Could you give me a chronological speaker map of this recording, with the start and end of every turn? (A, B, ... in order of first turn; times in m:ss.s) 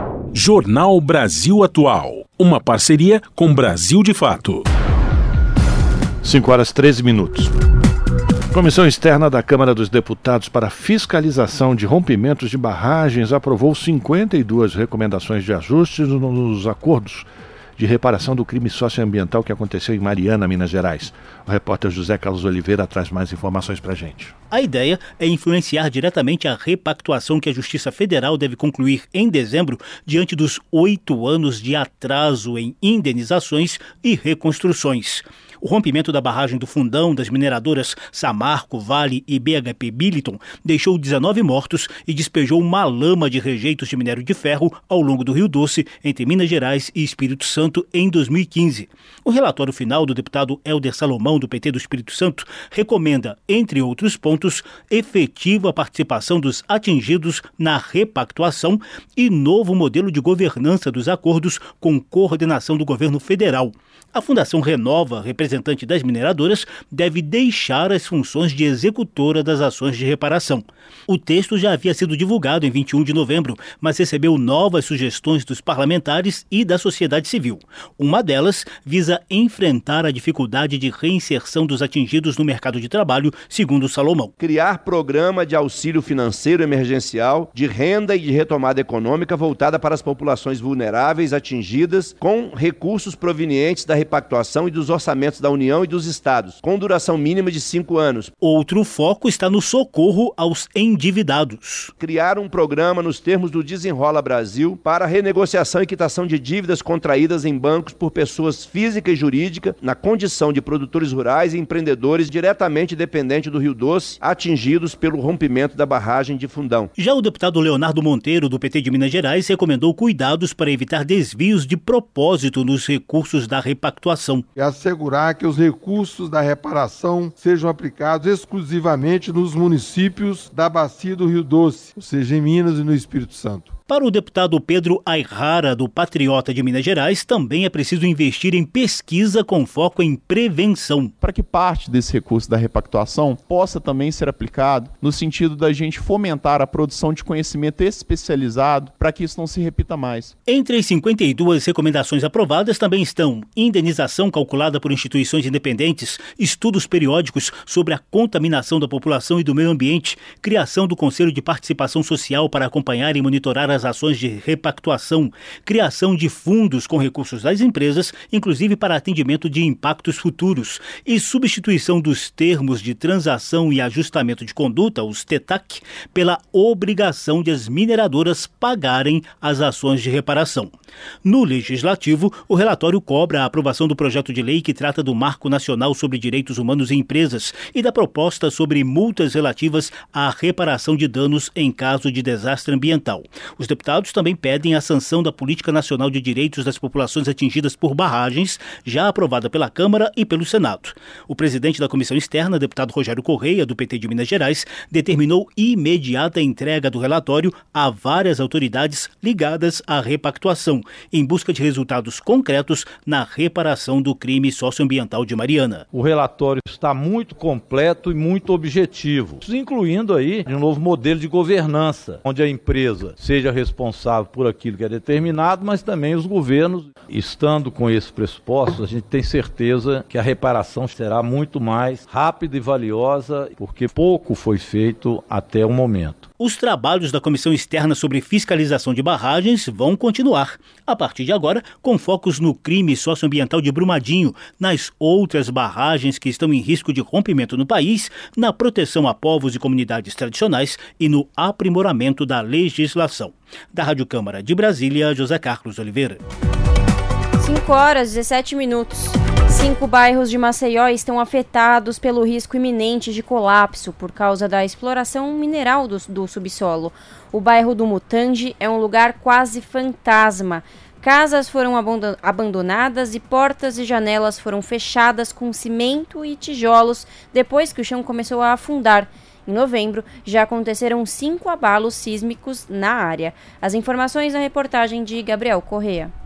0:00.3-0:04.6 A
0:06.2-0:07.5 B
0:08.5-0:24.3 B
0:24.5-1:24.3 C
1:24.4-1:38.3 D
1:38.4-1:41.9 C
1:42.0-1:56.9 D
1:57.0-2:04.4 C
2:04.6-2:13.7 E
2:13.9-2:21.1 C
2:21.2-2:30.3 F
2:30.4-3:00.7 C
3:01.2-3:35.9 C
3:35.9-3:56.2 G
3:56.4-4:16.2 C
4:17.4-4:46.1 H